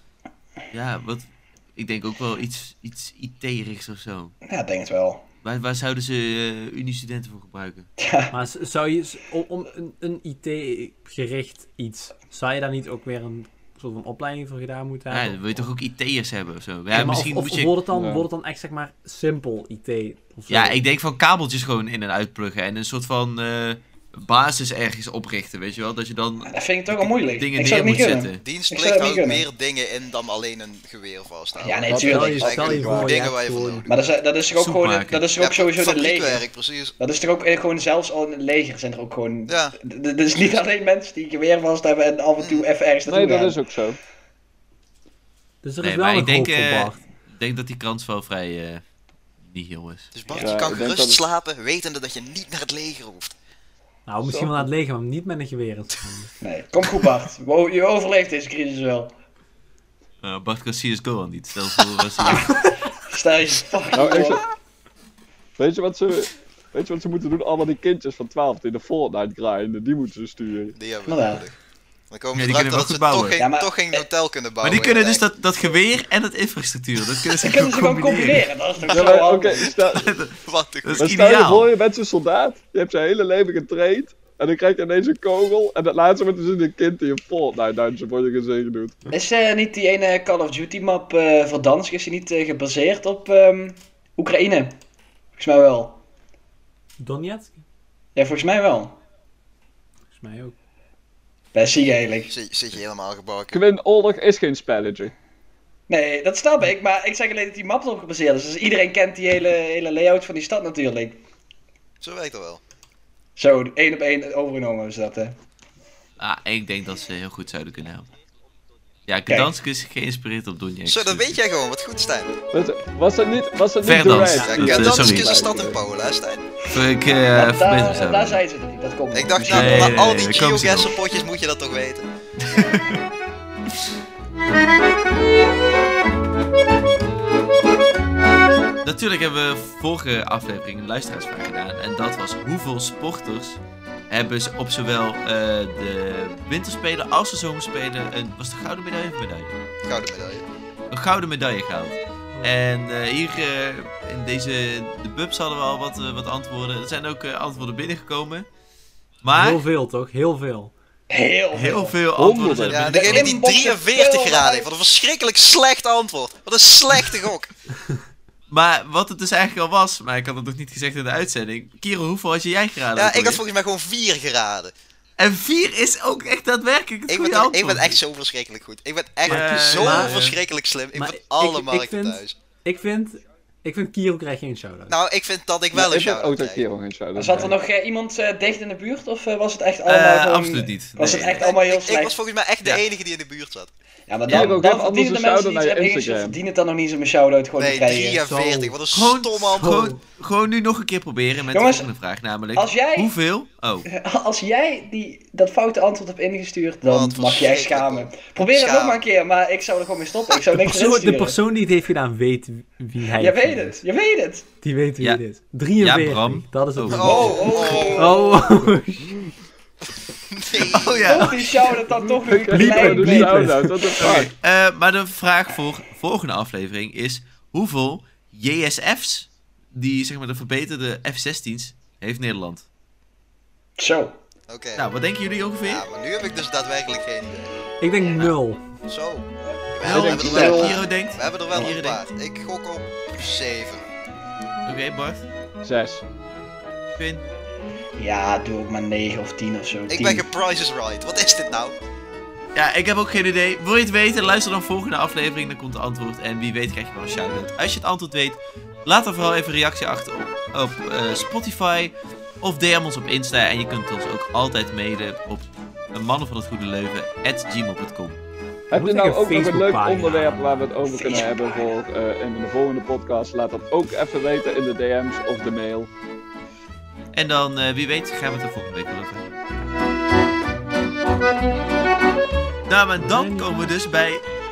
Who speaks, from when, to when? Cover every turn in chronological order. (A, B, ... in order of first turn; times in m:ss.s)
0:00.7-0:04.3 A
0:04.4-0:05.2 B
0:05.4-0:07.9 A
0:08.0-0:08.3 B
0:08.3-0:15.6 C
0:15.1-0:17.7 A
0:16.9-0:20.8 C
0:17.9-0:18.2 D
0:20.5-0:28.4 A
0:26.4-0:29.4 B
0:28.4-0:33.9 E
0:31.6-0:32.9 B
0:31.9-0:33.1 D
0:31.9-0:33.9 C
0:33.8-0:36.4 B
0:34.5-0:35.3 A
0:35.4-0:36.9 E
0:37.0-0:43.6 B
0:39.5-0:39.7 E
0:42.4-0:42.6 E
0:43.0-0:44.0 D
0:45.6-0:47.0 C
0:45.8-0:48.8 A
0:49.4-0:50.4 A
0:50.1-0:53.3 E
0:50.4-0:51.2 D
0:54.1-0:56.3 C
0:54.2-0:54.7 D
0:56.4-0:59.1 B
1:00.2-1:02.7 A
1:03.1-1:04.4 B
1:03.9-1:04.4 D
1:05.6-1:10.8 D
1:10.8-1:11.5 E
1:11.0-1:11.4 B
1:12.1-1:15.2 E
1:12.3-1:13.4 A
1:13.4-1:14.1 B
1:14.6-1:18.5 A
1:17.4-1:19.7 B
1:18.9-1:20.1 D
1:19.9-1:21.7 A
1:20.4-1:21.3 E
1:21.0-1:28.9 D
1:29.1-1:34.8 B
1:35.4-1:36.0 B
1:37.0-1:37.6 C
1:38.2-1:39.0 B
1:40.1-1:40.5 C
1:41.5-1:42.3 B
1:42.3-1:43.6 E
1:43.5-1:45.1 D
1:45.9-1:51.2 B
1:52.0-1:52.6 E
1:53.4-1:55.4 B
1:56.2-1:58.1 A
1:59.1-2:01.4 A
2:00.8-2:02.4 E
2:02.5-2:04.9 D
2:03.8-2:05.6 A
2:04.4-2:05.8 B
2:04.4-2:06.5 E
2:06.7-2:08.4 A
2:07.3-2:10.2 B
2:09.1-2:12.1 E
2:09.5-2:10.9 A
2:12.4-2:13.0 A
2:18.8-2:29.6 A
2:29.9-2:30.4 E
2:30.9-2:38.5 A
2:39.2-2:39.6 A
2:39.3-2:40.7 C
2:41.1-2:42.0 B
2:41.5-2:43.4 A
2:42.2-2:42.9 D
2:42.7-2:47.5 E
2:42.8-2:44.7 B
2:48.5-2:53.4 A
2:53.0-2:54.7 E
2:55.2-2:58.0 A
2:57.1-3:02.3 E
2:59.2-3:00.2 C
2:59.2-3:00.4 A
3:00.9-3:05.0 C
3:04.9-3:06.6 E
3:05.7-3:07.5 D
3:07.1-3:12.2 B
3:09.8-3:11.5 A
3:11.4-3:13.7 E
3:14.1-3:18.2 B
3:14.3-3:16.4 D
3:14.3-3:14.6 A
3:17.6-3:19.9 E
3:18.2-3:18.8 C
3:18.9-3:23.9 A
3:19.5-3:20.0 C
3:21.5-3:21.9 B
3:22.5-3:23.1 B
3:23.8-3:31.4 B
3:26.8-3:29.0 E
3:30.5-3:33.8 C
3:33.1-3:34.5 B
3:34.6-3:37.3 C
3:35.8-3:37.9 A
3:36.9-3:38.2 E
3:37.0-3:38.5 B
3:37.9-3:39.3 C
3:40.3-3:41.6 E
3:40.7-3:41.8 A
3:41.0-3:43.4 B
3:42.0-3:44.3 D
3:42.4-3:44.1 C
3:44.0-3:52.6 A
3:53.8-3:54.2 B
3:54.5-3:54.8 E
3:54.8-3:55.8 A
3:55.6-3:57.5 E
3:57.8-3:58.6 C
3:58.9-4:03.8 E
3:59.8-4:02.0 A
3:59.8-4:00.6 D
4:00.1-4:00.8 B
4:04.6-4:05.3 A
4:05.6-4:06.0 D
4:07.0-4:07.2 A
4:08.0-4:10.3 B
4:09.9-4:11.8 E
4:12.5-4:28.2 A
4:28.7-4:35.9 D
4:28.7-4:30.7 C
4:30.8-4:31.8 B
4:37.1-4:39.4 A
4:42.7-4:44.2 A
4:43.0-4:43.7 C